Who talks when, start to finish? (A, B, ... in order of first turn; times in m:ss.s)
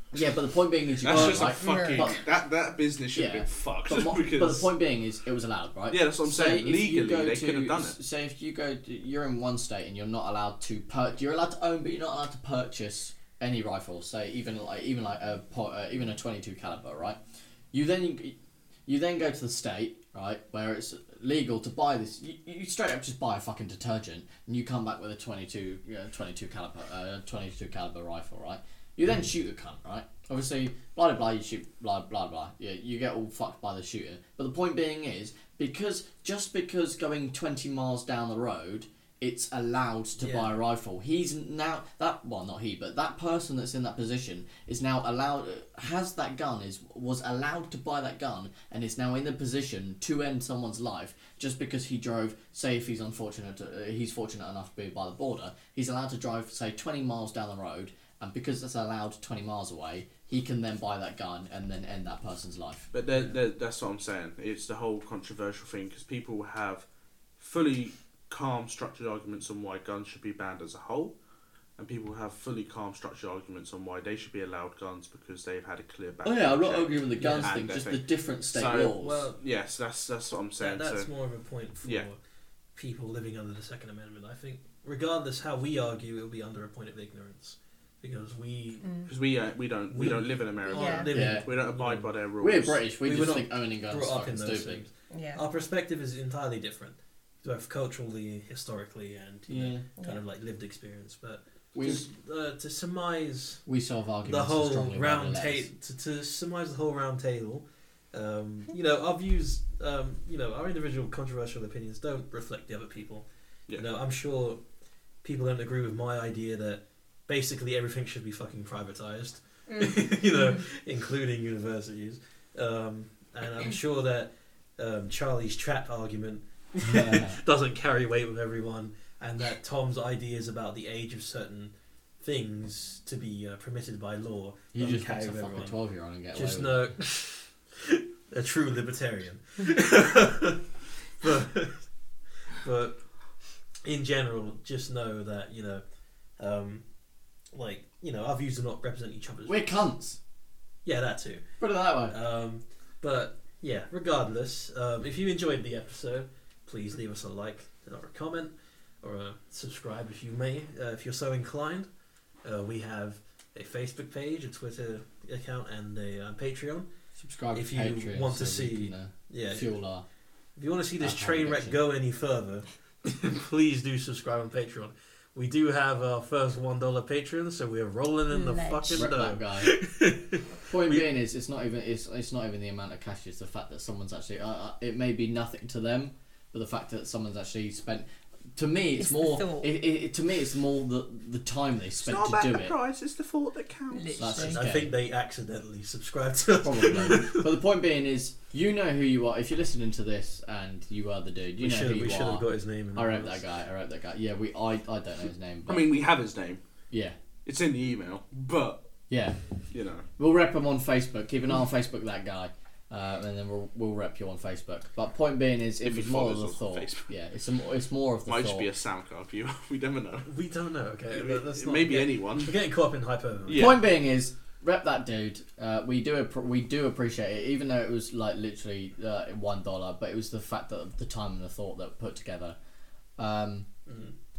0:00.1-0:02.2 A
0:01.0-0:04.7 B
0:01.1-0:01.5 C
0:01.5-0:02.1 D
0:03.1-0:17.2 A
0:05.9-0:08.0 B
0:17.7-0:18.3 A
0:18.9-1:02.9 A
0:40.2-0:40.5 C
1:02.9-1:06.9 B
1:07.4-1:11.1 B
1:11.8-1:21.1 B
1:16.2-1:19.3 A
1:17.2-1:17.6 C
1:19.0-1:19.4 C
1:20.6-1:22.2 C
1:22.7-1:28.9 C
1:28.8-1:29.1 D
1:29.0-1:32.8 B
1:29.9-1:32.1 C
1:30.7-1:31.1 D
1:31.1-1:31.5 A
1:32.4-1:34.8 A
1:33.0-1:43.6 C
1:35.1-1:35.4 D
1:39.5-1:39.8 A
1:40.0-1:40.2 D
1:41.7-1:42.1 A
1:43.6-1:45.7 A
1:44.2-1:54.6 C
1:55.2-2:15.8 C
1:59.7-2:00.6 D
2:06.8-2:07.4 A
2:14.7-2:16.9 A
2:16.3-2:21.9 C
2:22.5-2:23.0 C
2:23.8-2:25.8 C
2:26.4-2:26.8 C
2:27.5-2:29.9 C
2:29.4-2:30.2 A
2:30.8-2:31.4 C
2:31.6-2:32.2 A
2:32.1-2:41.9 C
2:42.4-2:46.9 C
2:47.2-2:50.0 A
2:47.5-2:49.8 C
2:50.6-3:01.0 C
2:51.0-2:51.8 A
2:58.3-2:59.1 D
2:58.9-2:59.7 A
3:00.7-3:12.7 A
3:09.0-3:09.7 D
3:12.0-3:14.3 B
3:13.9-3:14.6 D
3:14.2-3:15.0 A
3:14.4-3:17.5 C
3:16.6-3:25.9 A
3:21.6-3:23.4 C
3:25.7-3:26.6 B
3:26.9-3:27.2 A
3:27.4-3:28.9 B
3:29.1-3:29.4 A
3:29.7-3:30.1 B
3:30.2-3:38.7 A
3:35.8-3:37.1 B
3:38.3-3:40.3 B
3:40.3-3:43.8 C
3:41.1-3:42.6 B
3:43.4-3:43.8 B
3:43.5-3:52.6 A
3:53.2-3:53.7 A
3:53.9-3:54.1 C